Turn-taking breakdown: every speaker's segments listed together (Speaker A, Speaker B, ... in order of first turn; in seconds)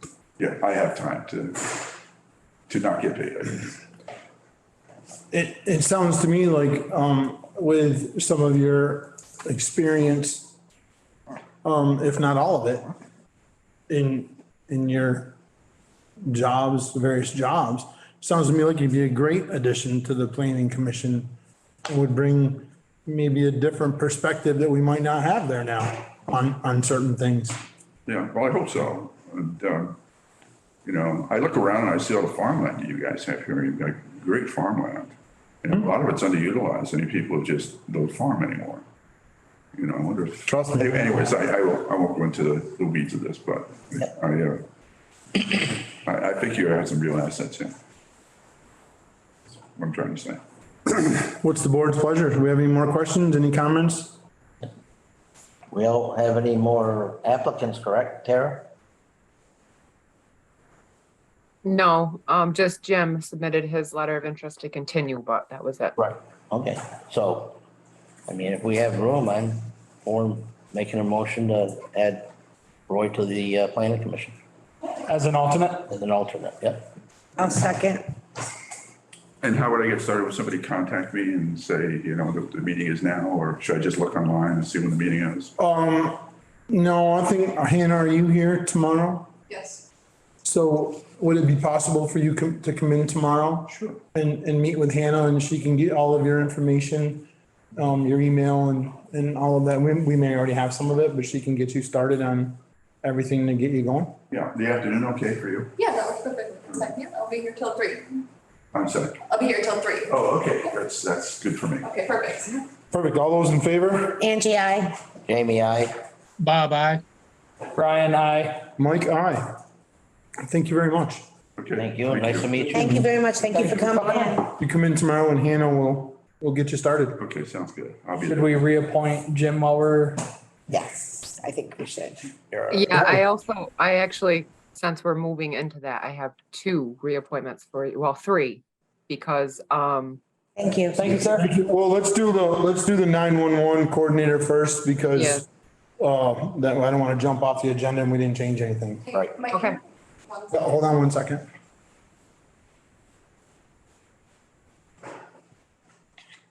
Speaker A: 0.4-1.8, 2.7-3.8, 28.1-30.0, 30.9-38.9, 39.8-44.6, 45.4-47.7, 49.8-50.4, 79.4-85.5, 93.7-94.0, 104.3-105.8, 108.7-109.2, 110.1-111.9, 121.6-122.8, 127.2-128.6
Speaker B: 5.3-10.5, 11.6-12.9, 13.9-15.4, 16.2-21.3, 21.9-27.6, 40.5-41.1, 51.3-54.2, 85.6-89.3, 90.4-104.2, 112.9-114.2, 118.8-119.6, 120.4-121.2, 124.6-127.2, 141.0-145.5, 146.0-149.0, 150.5-151.4
Speaker C: 55.7-58.7, 66.0-67.6, 68.3-72.3, 72.9-74.4, 75.9-76.9, 115.3-116.0, 121.7-123.1
Speaker D: 61.6-66.0, 132.7-140.2, 145.2-145.4, 149.5-149.8
Speaker E: 75.1-75.9, 116.4-117.0, 117.8-118.7, 123.5-124.4, 128.2-130.2, 141.0-141.5
Speaker F: 77.4-78.0, 114.2-115.0, 122.7-124.5, 130.7-132.4, 140.6-141.1
Speaker G: 89.5-89.8, 105.8-108.2, 109.3-110.1, 111.8-112.7, 149.1-150.5